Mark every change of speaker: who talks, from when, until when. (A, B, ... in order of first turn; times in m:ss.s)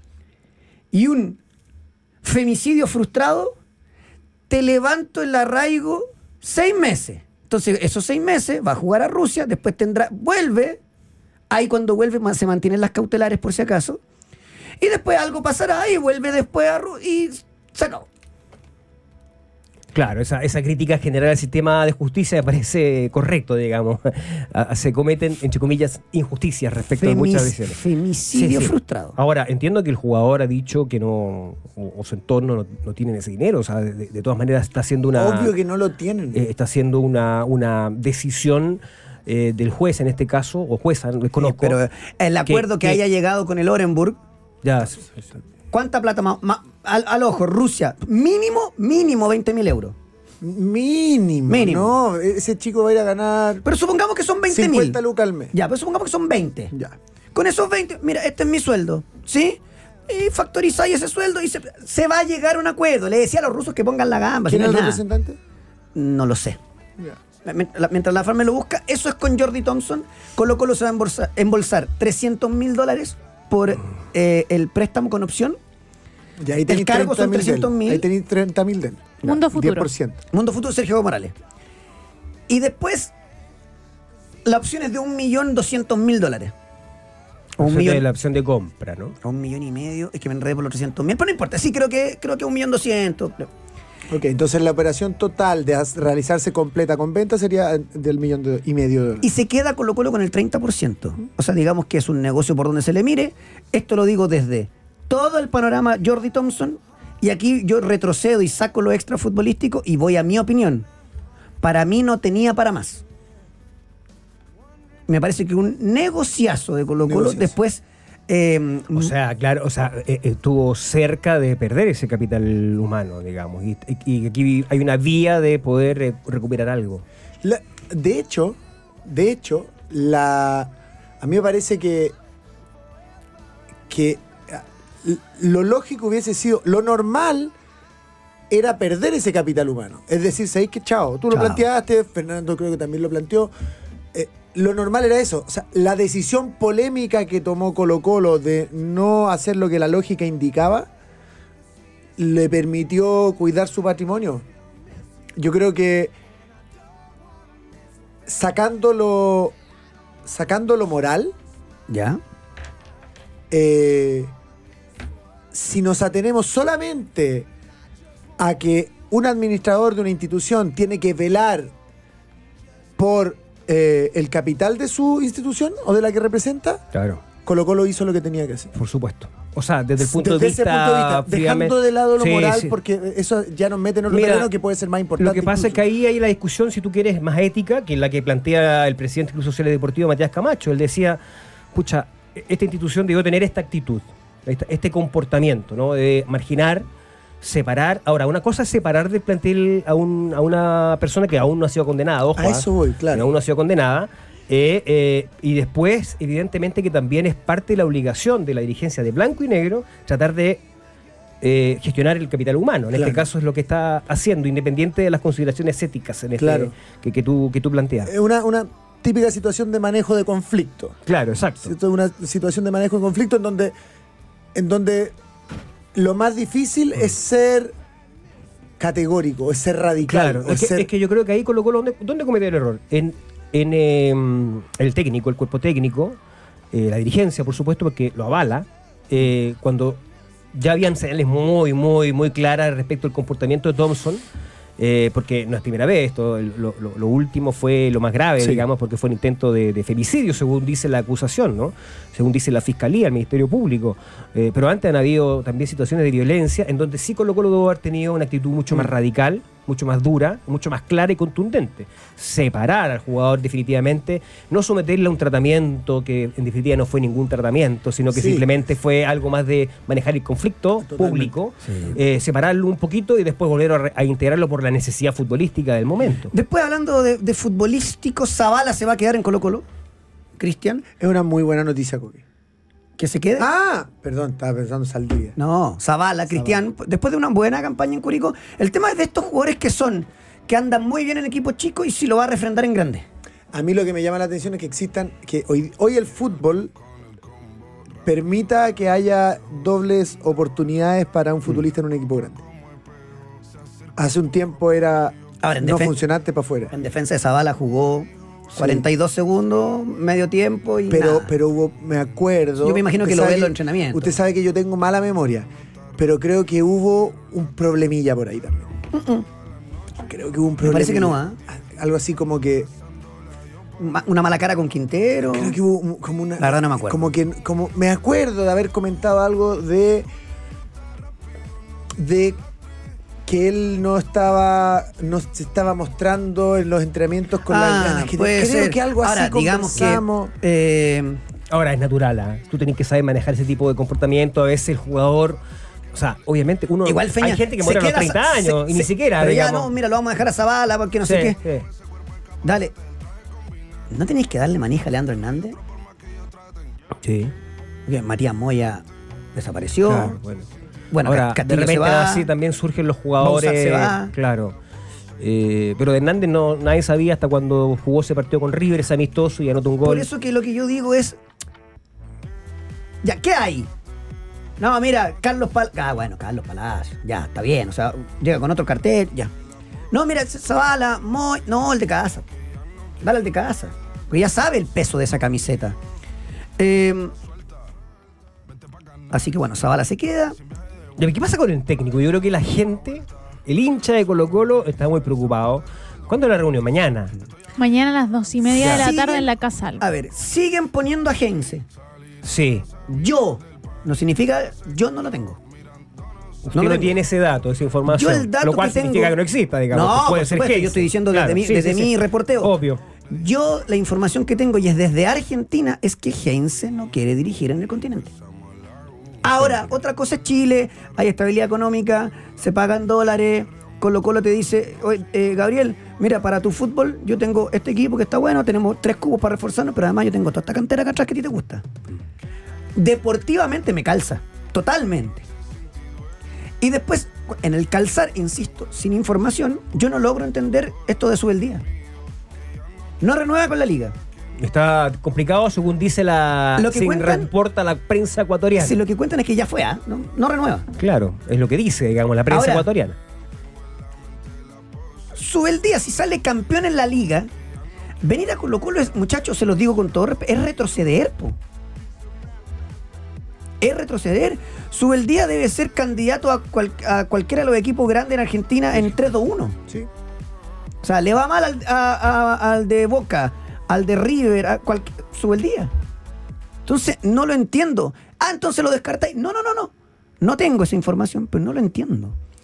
0:00.9-0:01.4 A
0:02.2-0:03.6 A
0:04.5-0:10.8 A
0:11.5-0:14.0 A
0:14.8-0:18.1 A
0:19.9-0:27.8 B
0:26.9-0:29.2 A
0:28.3-0:35.5 B
0:35.2-0:36.4 C
0:36.3-0:41.8 B
0:41.4-0:44.2 A
0:42.4-0:43.0 B
0:44.6-0:45.2 B
0:45.7-0:50.0 A
0:50.4-0:53.6 C
0:51.5-0:52.0 A
0:53.6-0:55.0 A
0:54.5-0:55.5 C
0:55.5-0:56.7 A
0:57.3-1:05.0 A
1:04.5-1:05.4 C
1:06.0-1:06.6 A
1:07.4-1:15.6 A
1:16.4-1:20.2 C
1:16.7-1:18.1 A
1:19.2-1:19.9 D
1:20.3-1:21.3 A
1:22.5-1:23.1 A
1:24.4-1:26.5 A
1:27.6-1:28.0 A
1:27.6-1:29.2 B
1:29.2-1:33.5 A
1:34.1-1:39.2 C
1:39.2-1:50.9 A
1:51.6-1:53.0 A
1:55.1-1:59.1 A
1:57.0-1:57.5 C
1:58.9-2:07.0 B
2:07.4-2:12.2 C
2:13.9-2:17.5 C
2:18.5-2:23.5 C
2:21.3-2:21.6 A
2:24.1-2:30.9 C
2:32.2-2:34.4 C
2:35.4-2:36.1 C
2:38.3-2:39.6 C
2:40.3-2:41.4 C
2:41.9-2:42.2 A
2:43.5-2:44.3 C
2:45.5-2:47.5 C
2:48.4-2:51.7 C
2:53.0-2:56.8 C
2:56.9-2:57.2 B
2:57.4-2:58.7 C
2:58.8-3:02.8 B
3:00.0-3:05.8 C
3:04.1-3:04.5 B
3:05.2-3:11.2 B
3:11.7-3:16.9 B
3:17.4-3:30.6 B
3:22.4-3:23.3 C
3:31.4-3:38.1 B
3:32.9-3:33.2 C
3:36.4-3:36.7 C
3:38.1-3:41.0 C
3:41.1-3:41.7 B
3:41.7-3:43.7 C
3:44.6-3:45.2 C
3:46.0-3:47.7 C
3:48.8-3:50.9 C
3:50.0-3:56.2 B
3:56.7-4:00.0 B
4:00.5-4:04.2 B
4:04.8-4:36.3 B
4:28.1-4:28.5 C
4:30.8-4:31.3 C
4:36.3-4:39.7 A
4:40.4-4:40.8 A
4:41.0-4:42.2 C
4:43.0-4:43.5 A
4:43.4-4:45.4 C
4:45.4-4:53.1 A
4:46.4-4:46.6 C
4:53.5-4:56.7 C
4:58.0-5:02.4 C
5:04.0-5:06.7 C
5:05.4-5:06.0 A
5:06.7-5:11.3 A
5:08.6-5:08.8 C
5:10.9-5:18.8 C
5:12.6-5:14.2 A
5:18.9-5:19.3 A
5:20.0-5:22.7 C
5:20.6-5:21.4 A
5:23.8-5:25.6 A
5:25.3-5:30.1 C
5:26.4-5:27.1 A
5:32.0-5:32.4 C
5:33.3-5:40.3 C
5:37.5-5:41.2 A
5:41.5-5:45.4 B
5:45.9-5:49.7 B
5:46.8-5:51.4 A
5:51.0-5:51.7 B
5:52.4-5:52.8 A
5:53.9-5:55.6 A
5:57.0-5:57.3 B
5:57.9-6:00.2 A
5:59.8-6:00.5 B
6:00.9-6:02.3 A
6:01.0-6:04.6 B
6:03.2-6:04.1 A
6:05.2-6:10.1 B
6:09.8-6:11.2 A
6:13.0-6:13.7 A
6:14.6-6:19.3 A
6:19.9-6:22.3 A
6:23.0-6:25.8 A
6:26.6-6:27.1 A
6:29.1-6:30.4 A
6:31.0-6:37.1 B
6:37.6-6:39.8 D
6:38.5-6:39.3 A
6:38.6-6:38.8 B
6:39.8-6:41.6 A
6:42.2-6:42.7 B
6:42.9-6:45.4 A
6:46.5-6:52.8 B
6:46.5-6:47.0 A
6:47.9-6:49.2 A
6:49.7-6:52.6 A
6:53.1-6:58.1 A
6:59.2-7:11.7 A
7:12.8-7:15.3 A
7:16.6-7:21.6 A
7:23.0-7:24.0 A
7:24.4-7:28.8 B
7:26.6-7:27.3 A
7:28.6-7:30.7 A
7:30.8-7:33.0 B
7:32.3-7:32.7 A
7:35.1-7:37.3 A
7:38.0-7:41.4 A
7:43.6-7:49.6 A
7:50.8-7:55.7 A
7:56.7-8:02.2 A